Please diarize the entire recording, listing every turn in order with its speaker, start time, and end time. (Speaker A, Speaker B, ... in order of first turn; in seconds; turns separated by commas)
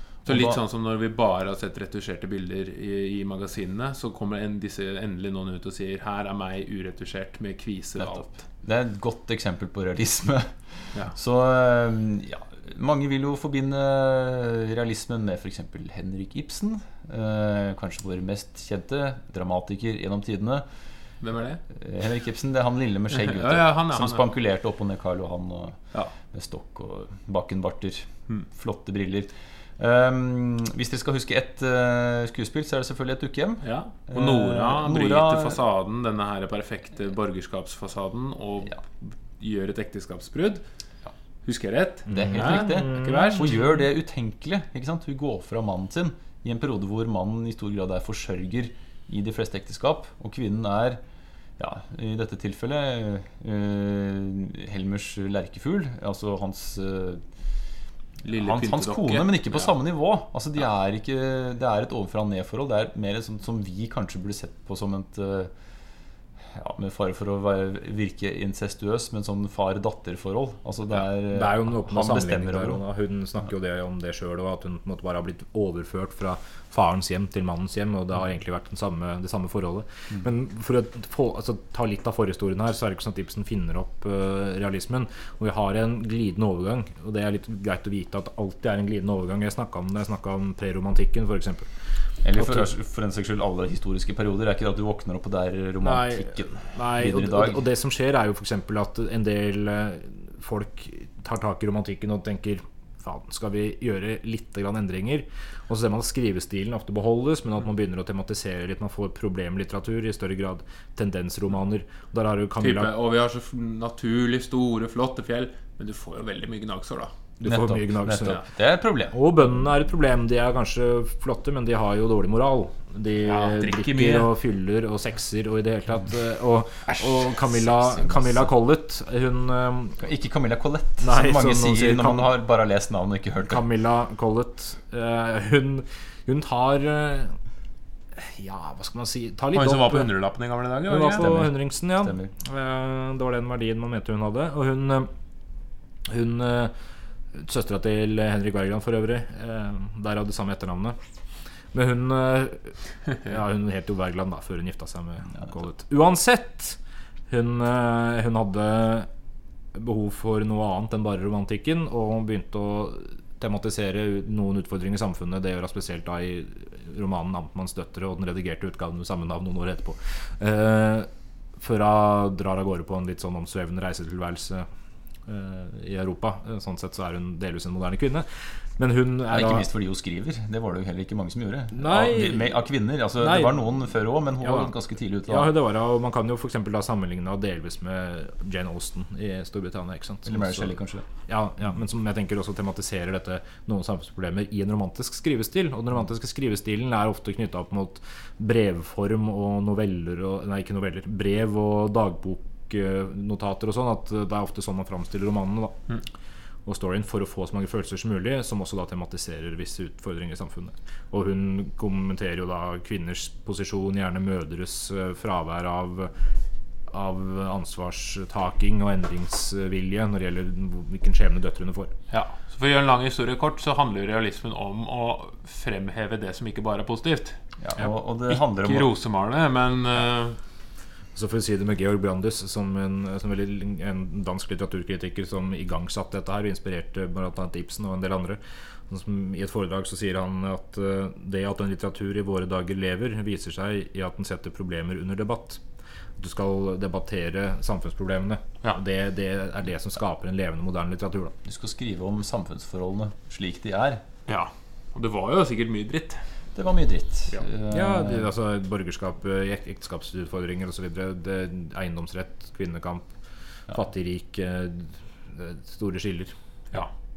Speaker A: 0.3-0.6, Speaker B: 0.3-8.4, Speaker A: 8.0-20.6, Speaker B: 21.2-21.6, Speaker A: 21.7-35.6, Speaker B: 23.1-24.2, Speaker B: 33.6-40.6, Speaker B: 41.5-43.6, Speaker C: 42.1-43.4, Speaker A: 42.1-51.0, Speaker A: 51.6-57.2, Speaker B: 58.2-59.7, Speaker A: 58.3-65.5, Speaker A: 66.5-72.8, Speaker C: 71.2-91.7, Speaker A: 92.2-97.7, Speaker C: 92.4-92.7, Speaker C: 95.8-112.9, Speaker B: 112.6-117.1, Speaker C: 117.4-118.4, Speaker A: 117.4-119.2, Speaker C: 119.1-130.0, Speaker B: 123.2-124.3, Speaker A: 130.0-133.6, Speaker C: 131.0-132.3, Speaker C: 133.4-137.4, Speaker C: 138.2-140.1, Speaker B: 139.5-141.3, Speaker C: 140.9-145.1, Speaker A: 141.2-142.3, Speaker C: 146.1-146.7, Speaker C: 147.3-151.0, Speaker C: 151.7-156.8, Speaker C: 157.3-159.1, Speaker C: 159.7-174.7, Speaker C: 175.3-178.3, Speaker C: 178.8-179.7, Speaker A: 179.3-185.5, Speaker C: 181.7-182.6, Speaker C: 183.2-183.6, Speaker C: 184.4-184.7, Speaker C: 185.3-190.8, Speaker A: 190.3-191.1, Speaker C: 191.3-205.8, Speaker C: 206.7-216.1, Speaker C: 216.9-221.9, Speaker B: 222.1-227.4, Speaker A: 227.6-228.9, Speaker B: 228.3-230.4, Speaker C: 231.2-245.6, Speaker C: 246.2-251.3, Speaker A: 251.4-254.0, Speaker B: 254.3-256.2, Speaker A: 256.6-258.3, Speaker C: 257.7-263.1, Speaker C: 263.7-266.3